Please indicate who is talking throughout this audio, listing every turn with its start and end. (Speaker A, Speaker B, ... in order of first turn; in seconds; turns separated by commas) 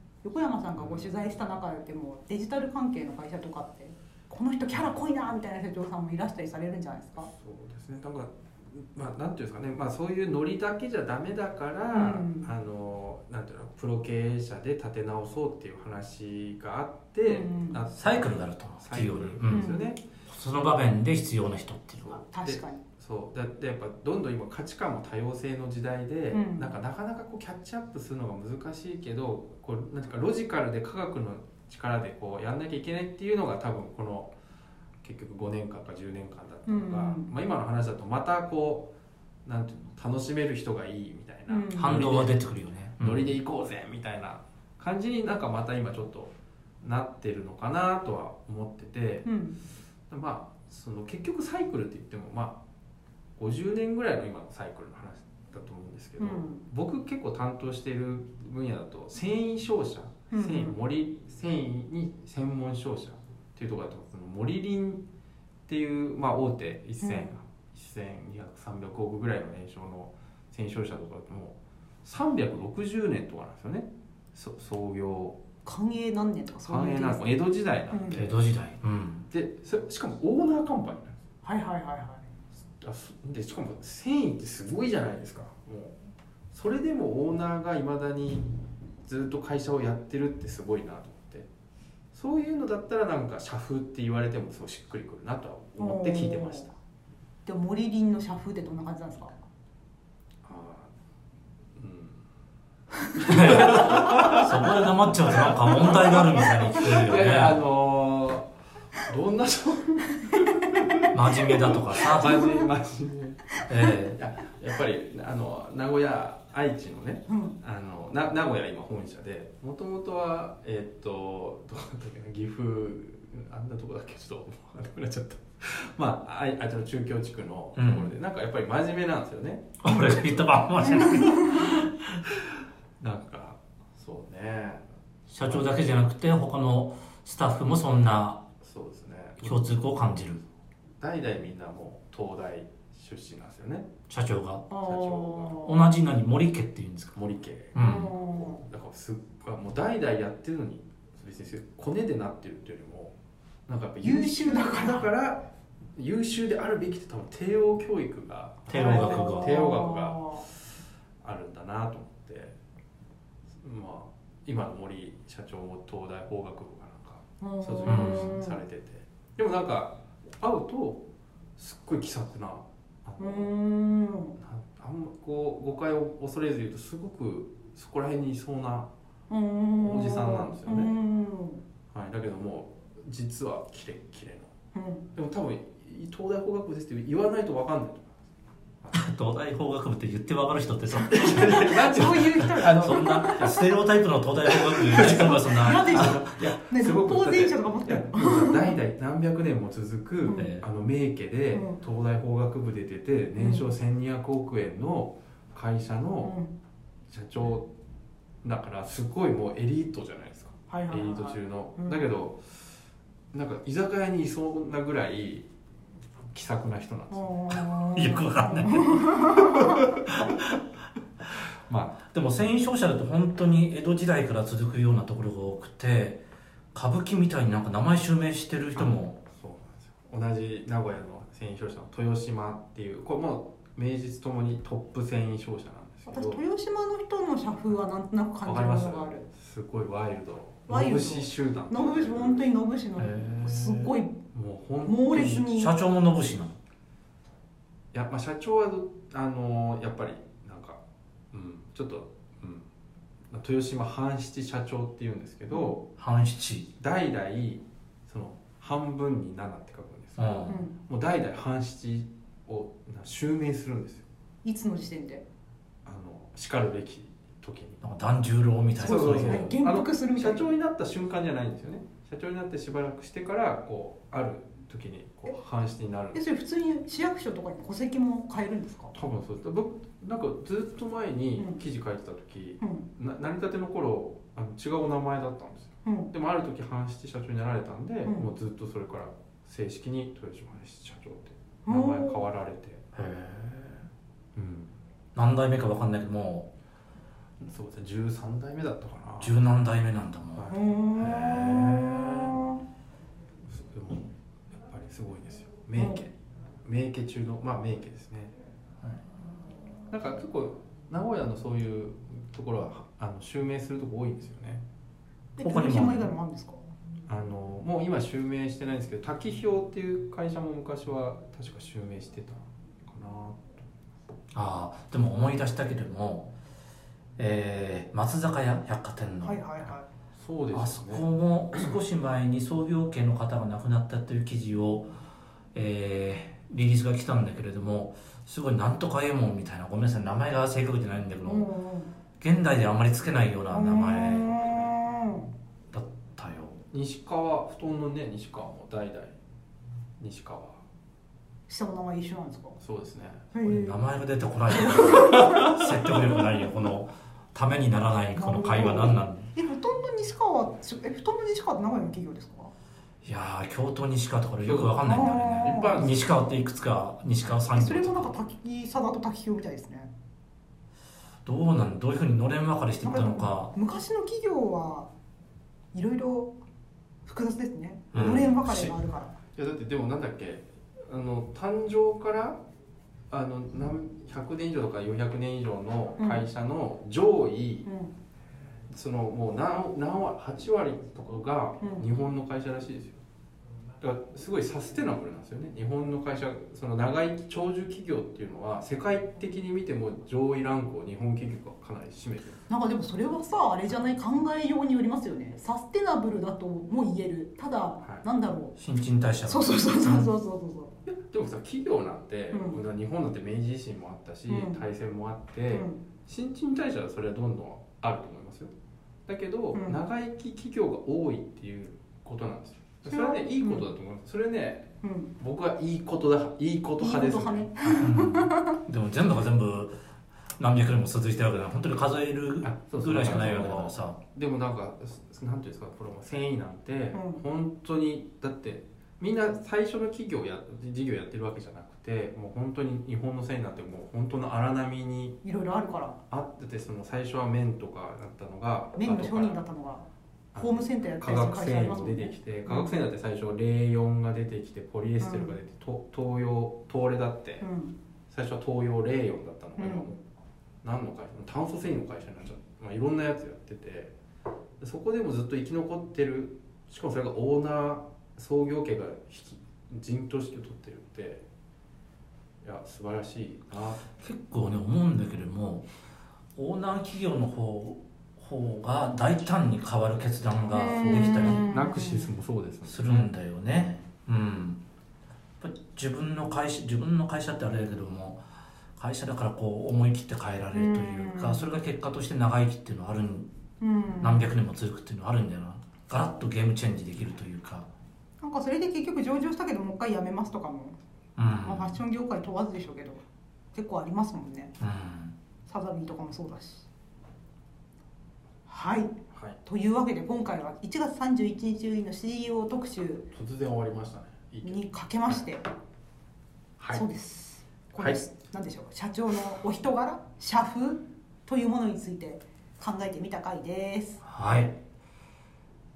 Speaker A: 0.2-7.3, Speaker B: 0.8-1.1, Speaker B: 7.3-20.0, Speaker A: 11.9-12.5, Speaker A: 17.2-17.8, Speaker C: 17.9-19.7, Speaker A: 19.5-19.9, Speaker C: 20.2-22.2, Speaker A: 22.1-22.8, Speaker B: 22.3-34.3, Speaker A: 26.3-26.7, Speaker B: 35.0-38.9, Speaker A: 36.6-37.3, Speaker B: 39.4-42.4, Speaker A: 41.5-42.2, Speaker C: 41.8-43.3, Speaker B: 43.0-49.3, Speaker A: 49.2-49.6, Speaker B: 50.1-52.6, Speaker B: 53.4-65.0, Speaker A: 56.2-56.6, Speaker A: 60.3-60.7, Speaker B: 65.7-75.4, Speaker A: 67.0-67.3, Speaker A: 75.6-77.4, Speaker B: 76.7-78.3, Speaker A: 77.9-78.3, Speaker C: 78.1-79.3, Speaker B: 79.3-81.2, Speaker A: 81.4-82.2, Speaker B: 82.8-86.0, Speaker B: 86.5-88.5, Speaker B: 89.0-91.5, Speaker B: 92.1-96.7, Speaker A: 95.8-96.7, Speaker A: 97.5-99.4, Speaker B: 100.4-100.9, Speaker B: 101.8-102.2, Speaker B: 103.1-129.9, Speaker C: 103.3-107.6, Speaker A: 105.9-106.7, Speaker A: 110.3-111.5, Speaker C: 111.1-112.4, Speaker A: 112.2-112.7, Speaker C: 113.7-114.2, Speaker A: 117.3-117.5, Speaker C: 127.8-128.1, Speaker C: 129.8-132.4, Speaker B: 133.0-134.8, Speaker C: 135.3-138.4, Speaker B: 135.4-135.9, Speaker B: 138.6-139.7, Speaker C: 139.4-140.4, Speaker B: 141.0-143.9, Speaker C: 144.1-144.8, Speaker A: 144.7-145.8, Speaker B: 144.8-145.7, Speaker C: 145.6-147.2, Speaker B: 147.2-153.1, Speaker C: 147.7-148.1, Speaker A: 147.8-148.6, Speaker B: 153.7-160.6, Speaker A: 154.0-155.1, Speaker C: 158.7-159.5, Speaker A: 158.7-160.4, Speaker B: 161.2-162.5, Speaker B: 163.6-171.1, Speaker A: 167.4-168.6, Speaker C: 167.8-168.3, Speaker B: 171.6-173.5, Speaker A: 173.2-174.3, Speaker B: 174.4-178.9, Speaker A: 179.3-181.6, Speaker B: 179.8-180.9, Speaker B: 181.9-184.5, Speaker A: 184.7-185.1, Speaker B: 185.1-188.3, Speaker C: 188.9-196.2, Speaker A: 190.9-193.8, Speaker B: 191.1-193.6, Speaker A: 194.5-198.8, Speaker B: 194.7-206.3, Speaker C: 200.3-200.6, Speaker A: 201.5-201.8, Speaker A: 203.4-203.7, Speaker A: 206.2-206.5, Speaker B: 207.1-207.7, Speaker B: 208.4-212.4, Speaker A: 210.7-212.0, Speaker B: 213.3-215.5, Speaker B: 216.3-217.3, Speaker A: 217.1-219.9, Speaker C: 217.9-220.4, Speaker B: 221.7-222.0, Speaker C: 222.0-229.2, Speaker B: 228.8-236.4, Speaker A: 236.1-239.3, Speaker B: 238.4-242.5, Speaker A: 240.7-244.2, Speaker C: 243.0-243.9, Speaker B: 244.3-245.5, Speaker A: 244.8-245.7, Speaker C: 245.3-246.6, Speaker B: 247.9-250.8, Speaker B: 251.3-252.7, Speaker B: 253.3-255.8, Speaker C: 256.0-256.7, Speaker B: 256.8-264.1, Speaker C: 260.2-260.6, Speaker A: 260.5-260.7, Speaker A: 264.4-265.2, Speaker B: 265.8-267.8, Speaker C: 267.8-269.6, Speaker B: 268.8-276.2, Speaker A: 268.8-270.5, Speaker A: 276.1-278.9, Speaker B: 278.9-292.9, Speaker A: 281.4-281.6, Speaker A: 282.6-282.9, Speaker A: 285.8-286.1, Speaker A: 291.6-292.2, Speaker C: 292.9-293.9, Speaker B: 294.3-294.7, Speaker C: 295.1-296.5, Speaker B: 297.4-299.4, Speaker C: 299.2-301.9, Speaker B: 300.4-302.4, Speaker A: 300.5-302.6, Speaker B: 303.5-308.3, Speaker A: 305.8-306.0, Speaker B: 309.9-314.6, Speaker A: 315.4-316.6, Speaker C: 315.4-316.1, Speaker B: 317.1-323.6, Speaker C: 324.3-326.3, Speaker C: 327.2-329.6, Speaker A: 329.2-329.9, Speaker B: 330.1-331.7, Speaker C: 330.5-334.9, Speaker C: 335.5-341.5, Speaker A: 341.2-341.9, Speaker C: 342.2-344.4, Speaker A: 343.5-345.3, Speaker C: 345.7-346.6, Speaker B: 346.7-349.1, Speaker B: 350.0-350.6, Speaker A: 351.5-352.6, Speaker B: 352.6-353.3, Speaker A: 353.3-353.8, Speaker C: 353.4-359.3, Speaker A: 354.5-356.4, Speaker A: 358.1-362.5, Speaker C: 363.0-368.1, Speaker B: 364.4-364.8, Speaker A: 364.9-365.9, Speaker B: 365.3-366.1, Speaker A: 367.5-369.9, Speaker C: 371.2-373.5, Speaker A: 372.8-374.9, Speaker A: 375.7-376.3, Speaker A: 377.1-379.1, Speaker C: 377.9-378.7, Speaker B: 379.4-382.4, Speaker B: 383.1-387.7, Speaker A: 386.0-386.2, Speaker A: 387.6-387.9, Speaker B: 388.7-393.0, Speaker A: 391.6-391.9, Speaker B: 393.8-402.4, Speaker A: 402.5-408.5, Speaker C: 408.6-410.1, Speaker A: 409.2-410.7, Speaker B: 410.9-418.5, Speaker A: 412.3-412.6, Speaker A: 414.3-414.6, Speaker A: 415.5-415.8, Speaker B: 419.1-427.9, Speaker A: 419.5-419.8, Speaker A: 422.9-423.7, Speaker A: 424.8-425.1, Speaker A: 426.8-428.6, Speaker C: 427.8-429.8, Speaker C: 430.4-434.0, Speaker B: 432.4-445.2, Speaker A: 436.9-437.2, Speaker A: 445.2-446.0, Speaker B: 446.1-449.4, Speaker A: 448.8-452.7, Speaker B: 450.3-457.4, Speaker A: 455.0-455.3, Speaker A: 457.4-457.7, Speaker B: 458.1-460.0, Speaker A: 459.6-459.9, Speaker B: 460.6-463.9, Speaker B: 464.6-471.2, Speaker B: 472.4-473.9, Speaker C: 473.9-475.7, Speaker C: 476.3-481.5, Speaker A: 480.5-482.1, Speaker B: 480.8-483.1, Speaker C: 482.6-484.6, Speaker C: 485.4-488.2, Speaker C: 488.8-493.3, Speaker A: 490.5-491.5, Speaker A: 493.6-494.2, Speaker C: 494.0-497.7, Speaker A: 498.2-500.8, Speaker C: 501.1-501.8, Speaker A: 501.4-504.5, Speaker C: 504.6-505.1, Speaker A: 505.4-506.7, Speaker A: 508.5-513.0, Speaker B: 509.1-509.4, Speaker B: 513.1-514.7, Speaker A: 514.4-515.4, Speaker B: 516.6-516.8, Speaker A: 516.7-524.0, Speaker C: 524.0-524.6